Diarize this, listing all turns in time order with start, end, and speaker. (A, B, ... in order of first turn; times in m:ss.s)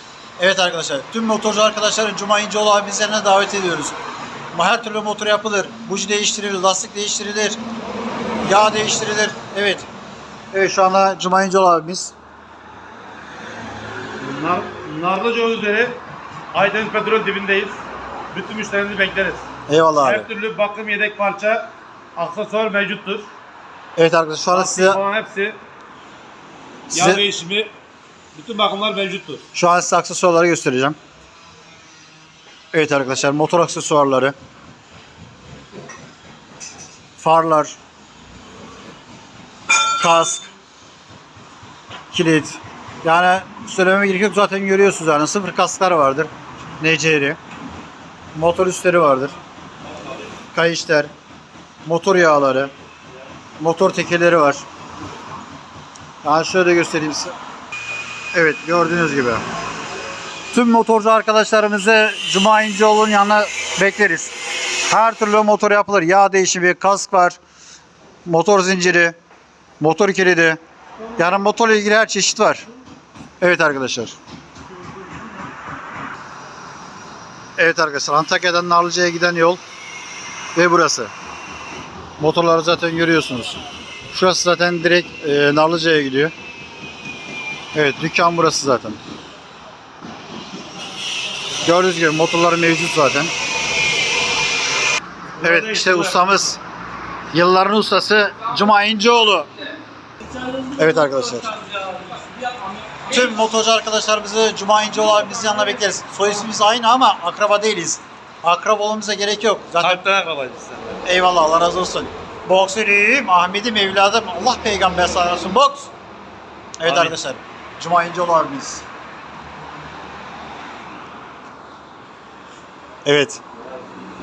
0:00.4-0:04.0 A
0:04.5-0:07.6 A
0:08.4-0:09.8 A
0:10.5-0:12.2 A
0:14.2-0:16.0 B
0:16.5-0:19.4 B
0:19.7-0:20.3 A
0:20.0-0:23.3 B
0:24.0-0:25.0 A
0:24.5-0:25.6 B
0:26.9-0:27.2 A
0:26.9-0:27.7 B
0:28.3-0:29.4 B
0:29.5-0:31.0 A
0:32.7-0:34.3 A
0:37.2-0:37.8 A
0:40.0-0:40.5 A
0:42.1-0:47.4 A
0:48.3-0:49.3 A
0:50.5-0:51.1 A
0:51.8-0:52.7 A
0:53.6-0:54.6 A
0:56.2-0:57.3 A
0:58.3-0:59.4 A
1:00.5-1:07.4 A
1:08.3-1:09.2 A
1:09.8-1:10.6 A
1:11.2-1:12.6 A
1:13.4-1:14.2 A
1:17.6-1:19.6 A
1:20.6-1:21.1 A
1:22.2-1:23.6 A
1:24.1-1:26.3 A
1:27.7-1:29.0 A
1:31.6-1:33.3 A
1:35.4-1:36.2 B
1:35.4-1:36.6 A
1:37.3-1:39.5 A
1:40.7-1:41.7 A
1:43.0-1:50.0 A
1:49.8-1:51.0 B
1:51.0-1:55.9 A
1:56.8-1:58.8 A
1:56.8-1:57.2 B
2:03.0-2:03.4 A